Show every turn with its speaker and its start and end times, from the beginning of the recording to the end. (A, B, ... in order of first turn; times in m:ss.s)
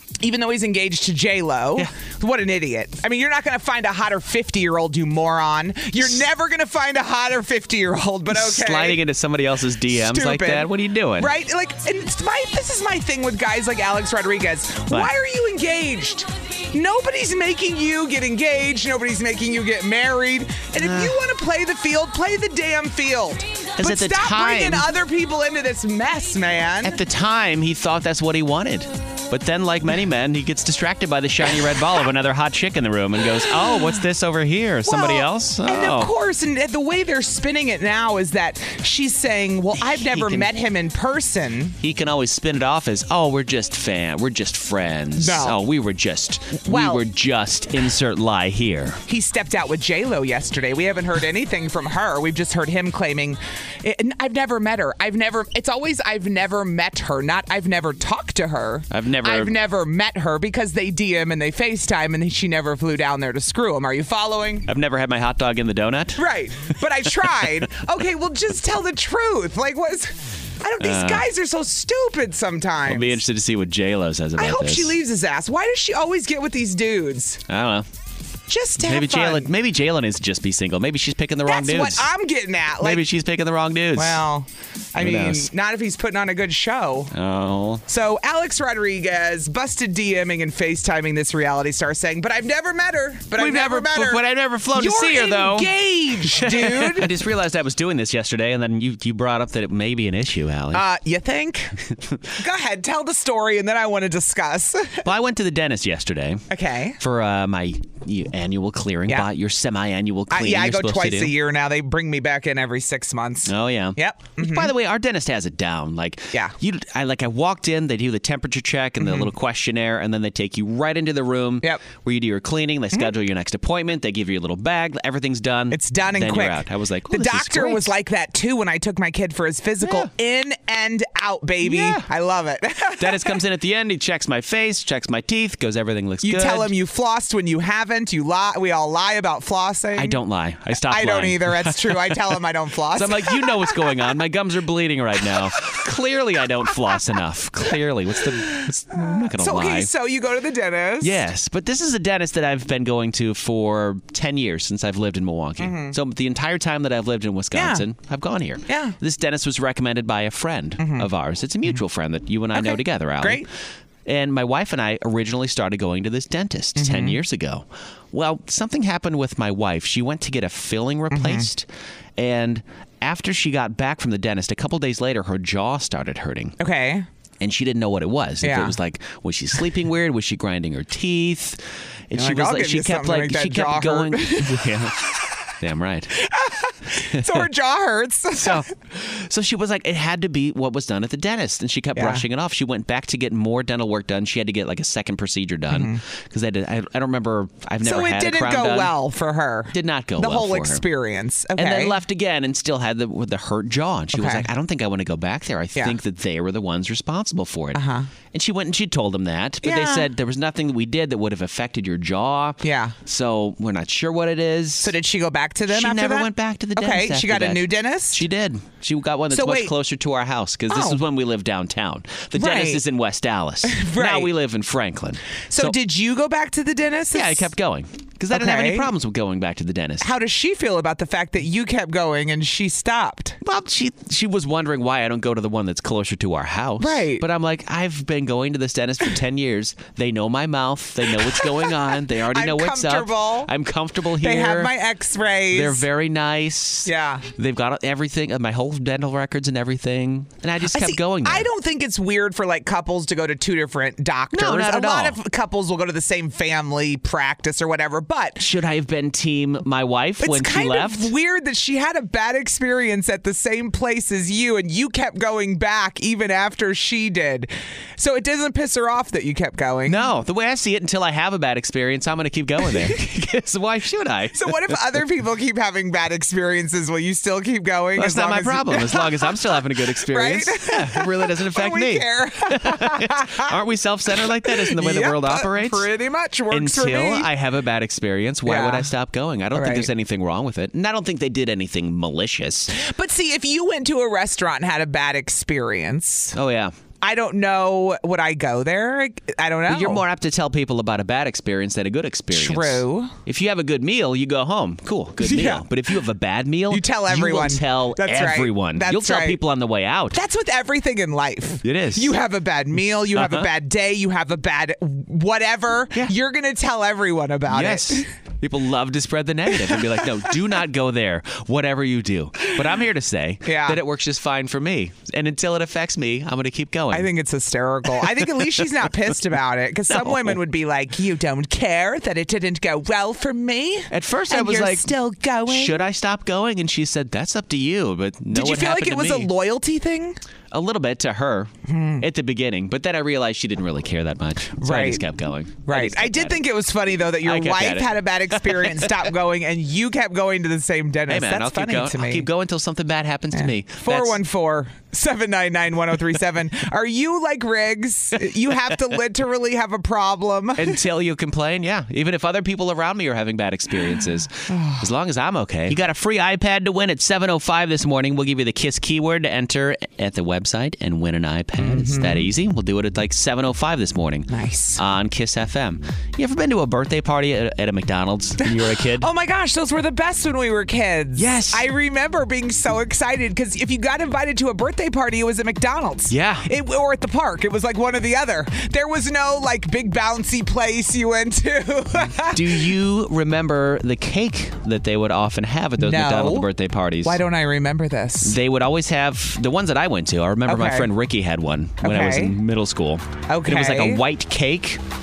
0:00.2-0:09.0 A
0:08.3-0:11.3 B
0:09.9-0:27.0 A
0:20.8-0:21.1 B
0:23.8-0:24.9 B
0:26.8-0:36.1 B
0:34.8-0:41.8 A
0:39.8-0:40.5 B
0:41.8-0:49.0 B
0:45.2-0:45.6 A
0:46.6-0:47.0 A
0:49.1-1:04.7 A
0:58.9-0:59.6 B
1:04.6-1:07.5 B
1:06.2-1:13.2 A
1:10.8-1:11.2 B
1:12.8-1:15.0 B
1:14.4-1:17.4 A
1:17.5-1:17.9 B
1:18.5-1:19.5 A
1:18.8-1:22.1 B
1:21.4-1:23.0 A
1:22.8-1:24.2 B
1:23.9-1:27.1 A
1:25.0-1:25.5 B
1:27.1-1:27.8 B
1:27.9-1:37.1 A
1:33.4-1:35.7 B
1:36.2-1:40.8 B
1:40.7-1:41.7 A
1:41.9-1:42.3 B
1:42.4-1:45.0 A
1:45.0-1:46.4 B
1:46.5-1:47.0 A
1:47.0-1:51.3 B
1:50.3-1:54.7 A
1:53.4-2:07.9 B
1:59.0-1:59.3 A
2:05.7-2:13.3 A
2:09.8-2:10.1 B
2:11.6-2:12.1 B
2:13.0-2:16.7 B
2:16.2-2:20.2 A
2:20.0-2:22.3 B
2:20.8-2:23.8 A
2:22.9-2:29.9 B
2:28.3-2:31.2 A
2:31.0-2:43.4 B
2:35.6-2:36.0 A
2:37.5-2:37.8 A
2:38.7-2:39.0 A
2:40.8-2:41.1 A
2:42.5-2:43.5 A
2:44.0-2:56.6 B
2:46.8-2:47.2 A
2:51.1-2:51.5 A
2:56.6-2:57.1 A
2:57.4-3:05.0 B
2:58.4-2:58.7 A
3:02.1-3:05.2 A
3:05.6-3:06.1 B
3:06.2-3:08.6 A
3:07.1-3:07.5 B
3:08.4-3:18.9 B
3:11.9-3:12.2 A
3:15.7-3:16.0 A
3:17.8-3:22.0 A
3:19.7-3:20.8 B
3:21.6-3:27.8 B
3:24.1-3:24.5 A
3:27.7-3:28.1 A
3:28.3-3:34.9 B
3:29.6-3:30.1 A
3:32.6-3:32.9 A
3:34.8-3:38.2 A
3:35.7-3:45.8 B
3:39.3-3:39.7 A
3:40.7-3:41.0 A
3:42.4-3:42.8 A
3:43.6-3:44.3 A
3:45.5-3:47.5 A
3:47.1-3:50.1 B
3:48.3-3:48.9 A
3:50.0-3:53.4 A
3:53.4-4:04.7 B
3:56.8-3:57.2 A
4:01.1-4:01.8 A
4:02.3-4:03.5 A
4:04.2-4:05.8 A
4:05.5-4:11.5 B
4:06.8-4:07.2 A
4:10.7-4:18.4 A
4:14.3-4:15.2 B
4:18.4-4:21.1 B
4:20.2-4:30.0 A
4:29.9-4:35.0 B
4:34.4-4:43.4 A
4:38.0-4:45.9 B
4:44.3-4:47.3 A
4:46.5-4:52.7 B
4:48.4-4:48.9 A
4:49.5-4:49.9 A
4:52.7-4:56.3 A
4:56.3-4:56.7 B
4:57.0-5:00.0 A
4:59.7-5:10.2 B
5:02.3-5:03.1 A
5:05.2-5:05.7 A
5:06.7-5:09.4 A
5:10.1-5:18.1 A
5:11.6-5:12.1 B
5:13.1-5:13.5 B
5:17.5-5:27.1 B
5:19.5-5:20.4 A
5:23.4-5:23.8 A
5:26.9-5:35.8 A
5:28.0-5:28.7 B
5:29.9-5:30.4 B
5:33.9-5:34.9 B
5:35.5-5:39.3 B
5:38.3-5:40.2 A
5:40.5-5:46.5 B
5:41.7-5:42.1 A
5:44.6-5:45.0 A
5:45.7-5:52.2 A
5:47.2-5:48.9 B
5:51.1-5:54.2 B
5:53.3-6:00.8 A
6:00.6-6:19.1 B
6:04.5-6:04.9 A
6:11.6-6:12.3 A
6:14.3-6:14.8 A
6:18.4-6:32.7 A
6:21.2-6:21.6 B
6:26.1-6:26.5 B
6:32.3-6:37.2 B
6:35.8-6:36.5 A
6:37.0-6:38.3 A
6:38.2-6:44.8 B
6:40.5-6:40.9 A
6:41.8-6:42.4 A
6:43.3-6:44.0 A